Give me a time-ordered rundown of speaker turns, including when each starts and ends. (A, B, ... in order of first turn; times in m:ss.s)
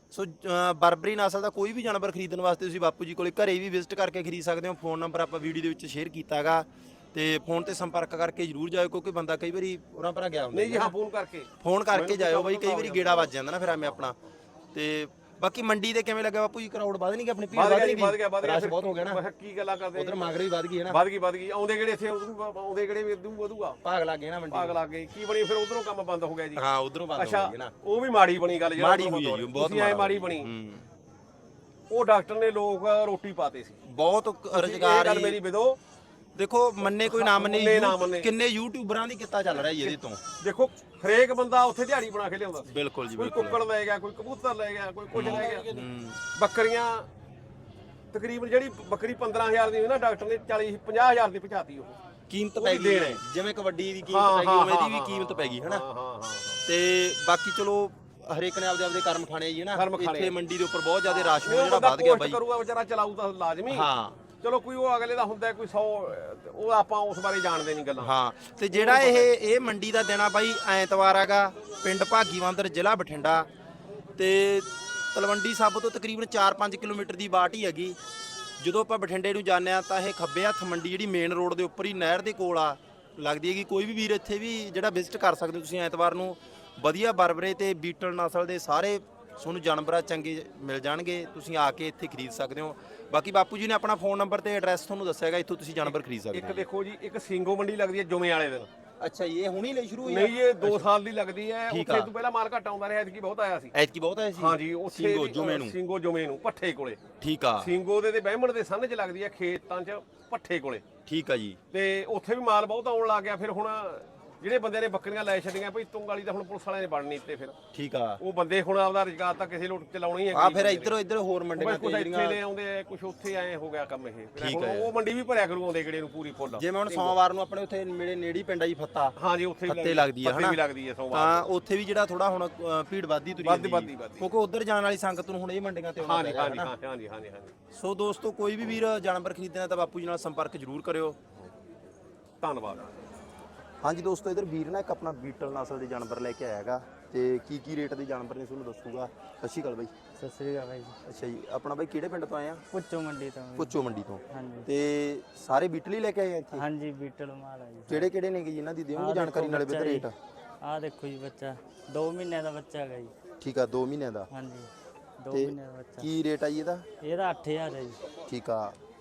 0:00.1-0:10.9 A
0:10.5-0:13.3 B
0:11.6-0:14.2 A
0:14.7-0:19.2 A
0:17.5-0:20.3 B
0:19.9-0:21.0 A
0:20.9-0:23.8 B
0:23.8-0:24.8 A
0:24.5-0:26.6 B
0:26.6-0:27.7 A
0:27.2-0:30.5 B
0:28.8-0:30.9 A
0:31.9-0:33.8 B
0:33.8-0:35.4 A
0:34.5-0:35.8 B
0:36.4-0:40.2 A
0:37.0-0:38.3 B
0:39.8-0:45.8 B
0:42.6-0:43.6 A
0:45.1-0:46.2 A
0:46.4-0:47.1 B
0:48.1-0:52.0 B
0:52.3-0:55.8 A
0:52.6-0:53.2 B
0:54.1-0:56.6 B
0:56.6-1:02.4 A
0:59.7-1:00.3 B
1:01.0-1:03.9 B
1:03.7-1:04.2 A
1:04.4-1:08.1 B
1:08.0-1:13.5 A
1:08.7-1:09.3 B
1:14.2-1:18.0 A
1:18.6-1:36.6 A
1:35.8-1:38.7 B
1:39.0-1:40.8 A
1:40.0-1:43.7 B
1:41.7-1:42.1 A
1:43.7-1:45.8 A
1:44.4-1:47.0 B
1:47.2-1:47.7 A
1:47.6-1:50.8 B
1:51.0-1:51.6 A
1:51.7-1:57.6 B
1:57.7-1:58.2 A
1:58.2-2:01.0 B
2:00.3-2:02.4 A
2:01.6-2:07.2 B
2:04.4-2:04.9 A
2:06.5-2:09.2 A
2:09.2-2:11.5 B
2:09.7-2:10.6 A
2:11.1-2:16.7 A
2:13.4-2:14.3 B
2:16.0-2:17.5 B
2:17.7-2:21.2 A
2:22.4-2:22.9 B
2:23.8-2:29.9 A
2:30.2-2:30.9 C
2:31.0-2:32.6 A
2:32.7-2:33.8 C
2:33.6-2:36.6 A
2:34.3-2:34.7 C
2:36.5-2:38.1 C
2:37.9-2:40.1 A
2:38.9-2:40.1 C
2:40.6-2:43.1 C
2:43.4-2:44.3 A
2:44.3-2:46.1 C
2:45.3-2:46.8 A
2:47.0-2:48.0 C
2:48.3-2:48.8 A